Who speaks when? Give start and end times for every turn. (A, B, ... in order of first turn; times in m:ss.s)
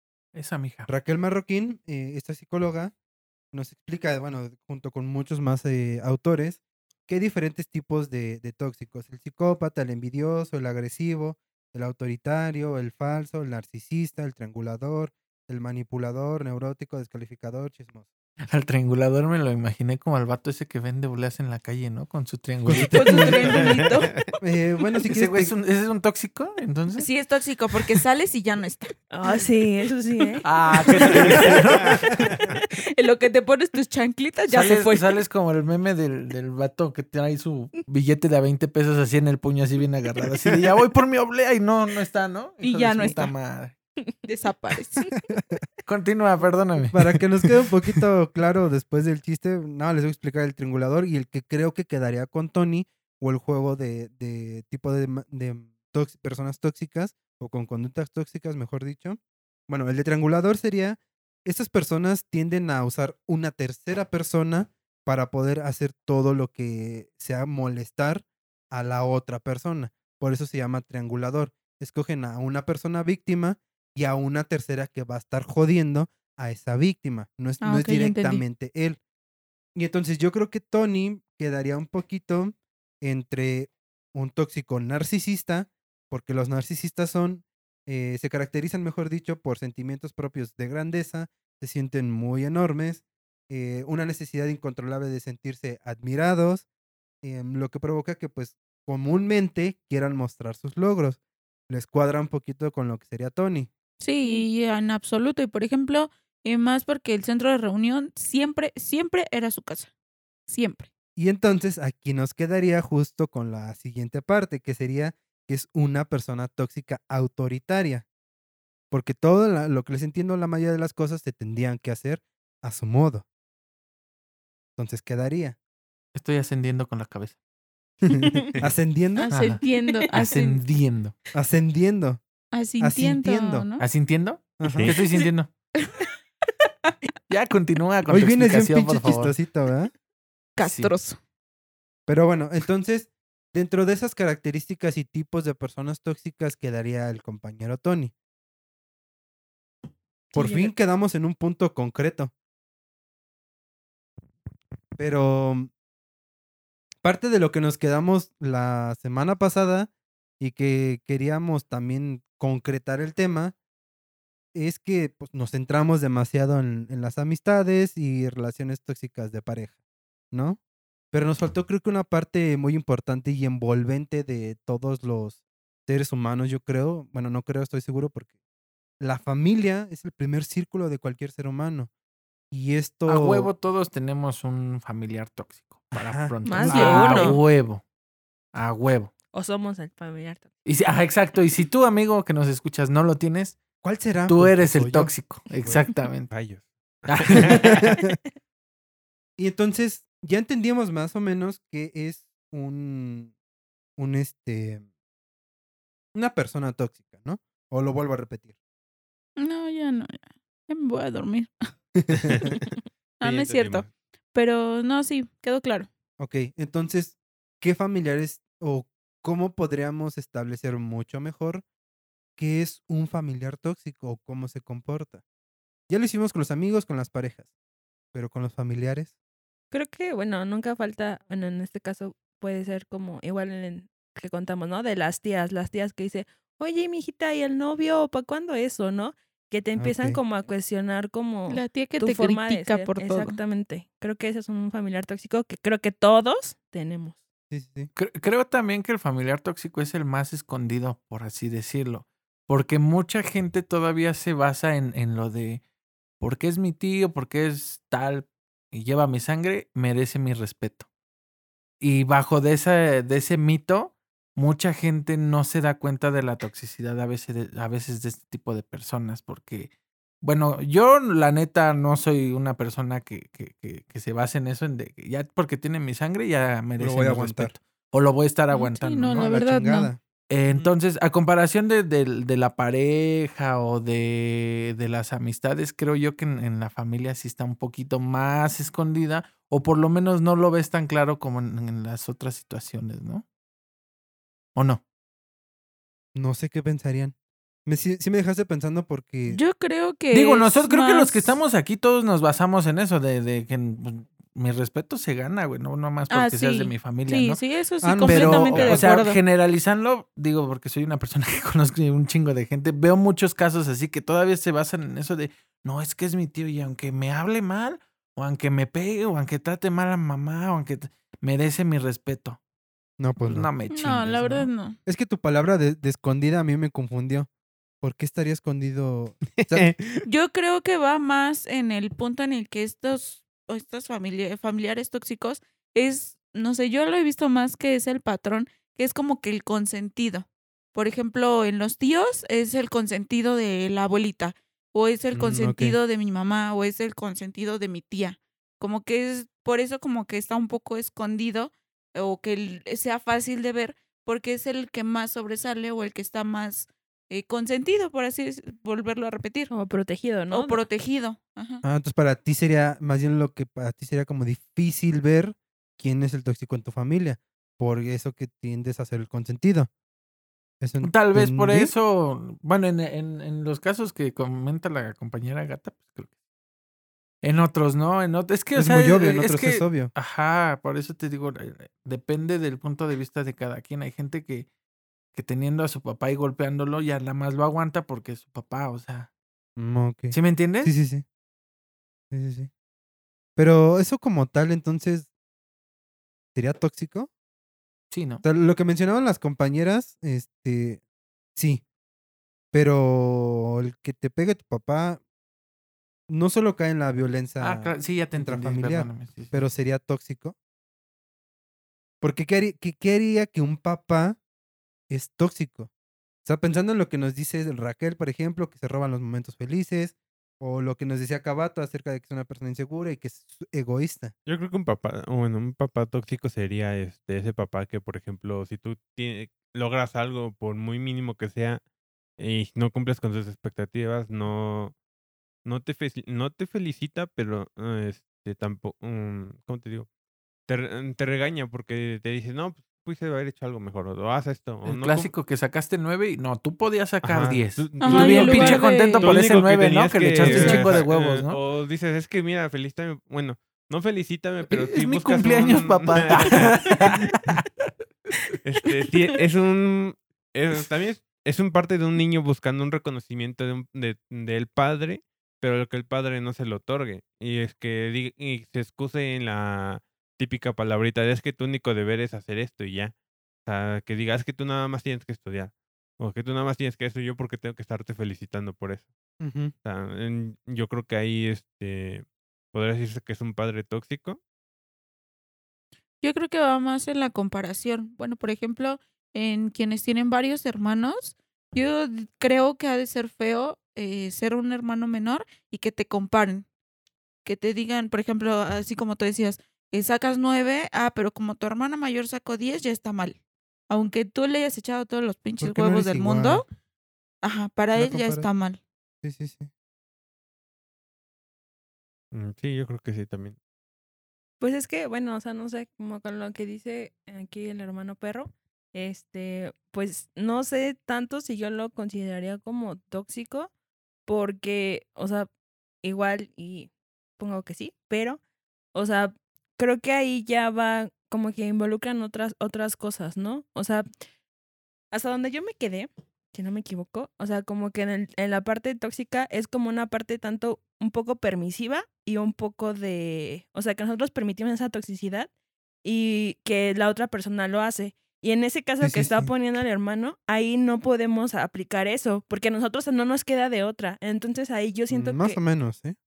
0:00.3-0:00.9 A
0:00.9-0:02.9 B
0:03.5-0:18.1 B
0:18.5-0:23.6 A
0:22.6-0:23.6 B
0:22.9-0:24.1 C
0:23.5-0:24.3 D
0:24.4-0:25.5 B
0:25.1-0:27.1 A
0:26.9-0:29.0 C
0:29.1-0:30.4 E
0:30.4-0:32.3 A
0:30.7-0:31.9 C
0:31.0-0:31.3 E
0:32.7-0:35.1 C
0:34.5-0:43.8 A
0:42.6-0:43.3 C
0:44.3-0:45.0 C
0:45.8-0:48.0 A
0:46.9-1:19.0 B
1:17.6-1:18.4 C
1:19.7-1:36.6 B
1:37.2-1:43.7 B
1:44.0-1:49.9 C
1:50.5-1:50.9 C
1:51.2-1:58.0 B
1:58.9-2:03.2 B
2:04.8-2:05.6 B
2:06.1-2:07.4 A
2:08.0-2:09.3 B
2:09.2-2:10.6 C
2:09.3-2:11.1 A
2:11.3-2:12.2 B
2:12.5-2:13.9 C
2:12.8-2:13.7 B
2:13.8-2:15.5 A
2:14.6-2:15.0 B
2:14.7-2:15.0 D
2:17.3-2:19.4 A
2:18.1-2:19.9 B
2:20.6-2:21.2 C
2:20.6-2:20.9 A
2:22.1-2:28.1 B
2:30.3-2:30.7 E
2:30.3-2:32.3 B
2:35.0-2:35.7 B
2:37.0-2:43.5 B
2:44.5-2:49.7 B
2:50.3-2:50.6 B
2:51.1-2:58.3 B
2:59.0-3:01.9 B
3:02.5-3:03.5 B
3:03.1-3:07.8 A
3:06.0-3:07.4 B
3:06.4-3:07.4 E
3:08.5-3:09.1 A
3:09.3-3:10.5 E
3:10.6-3:13.6 A
3:13.8-3:15.8 B
3:14.3-3:16.3 A
3:16.3-3:17.7 D
3:17.1-3:17.9 A
3:17.4-3:18.2 B
3:19.4-3:23.3 B
3:24.0-3:24.8 B
3:26.1-3:28.5 B
3:29.4-3:31.5 C
3:32.0-3:32.5 B
3:32.3-3:32.6 D
3:33.2-3:33.9 D
3:33.2-3:35.9 C
3:36.2-3:41.6 B
3:42.4-3:45.2 B
3:45.9-3:47.5 B
3:48.1-3:49.1 B
3:49.7-4:07.2 E
3:59.8-4:00.2 B
4:01.5-4:03.4 C
4:07.5-4:07.9 B
4:07.9-4:15.6 A
4:16.2-4:20.9 A
4:21.8-4:39.3 A
4:36.8-4:37.5 B
4:38.5-4:39.9 C
4:39.1-4:40.0 B
4:40.3-4:53.2 A
4:54.5-4:54.8 A
4:56.1-4:57.1 B
4:57.6-4:59.4 B
4:59.3-5:01.4 C
5:00.1-5:07.4 A
5:06.1-5:09.2 C
5:07.8-5:08.8 B
5:08.0-5:22.4 A
5:23.0-5:23.5 B
5:23.2-5:24.5 A
5:23.7-5:24.8 C
5:24.8-5:27.3 B
5:27.8-5:29.7 B
5:29.3-5:30.0 D
5:30.0-5:59.5 C
5:45.1-5:45.8 B
5:59.5-6:00.6 E
6:00.3-6:01.6 C
6:01.6-6:09.7 B
6:10.6-6:11.7 B
6:10.8-6:16.1 A
6:17.2-6:24.5 A
6:18.6-6:19.9 B
6:25.1-6:29.1 A
6:29.6-6:31.0 B
6:30.1-6:30.7 A
6:32.1-6:32.5 B
6:33.4-6:35.1 B
6:36.3-6:37.1 B
6:37.9-6:38.2 A
6:38.2-6:40.8 B
6:41.4-6:41.6 B
6:42.5-6:45.0 B
6:46.1-6:50.3 B
6:47.4-6:49.4 A
6:52.0-6:54.2 B
6:54.9-6:55.7 B
6:56.2-7:04.1 B
7:04.2-7:11.6 D
7:12.2-7:14.7 D
7:15.4-7:19.9 D
7:20.5-7:25.1 D
7:24.6-7:31.4 A
7:27.1-7:27.4 B
7:27.1-7:37.1 D
7:27.8-7:29.2 C
7:30.2-7:30.7 C
7:34.5-7:38.3 A
7:38.4-7:52.9 D
7:53.4-7:58.9 D
7:59.2-7:59.5 B
7:59.6-8:04.2 D
8:06.0-8:16.4 C
8:17.2-8:26.4 C
8:25.4-8:26.4 B
8:27.2-8:28.6 C
8:27.7-8:28.3 B
8:29.0-8:29.5 B
8:32.1-8:33.4 D
8:34.4-8:43.5 E
8:44.0-8:45.3 E
8:45.8-8:48.2 E
8:48.7-8:53.9 E
8:54.9-9:05.3 E
9:05.8-9:15.4 E
9:08.8-9:09.3 B
9:14.9-9:16.0 B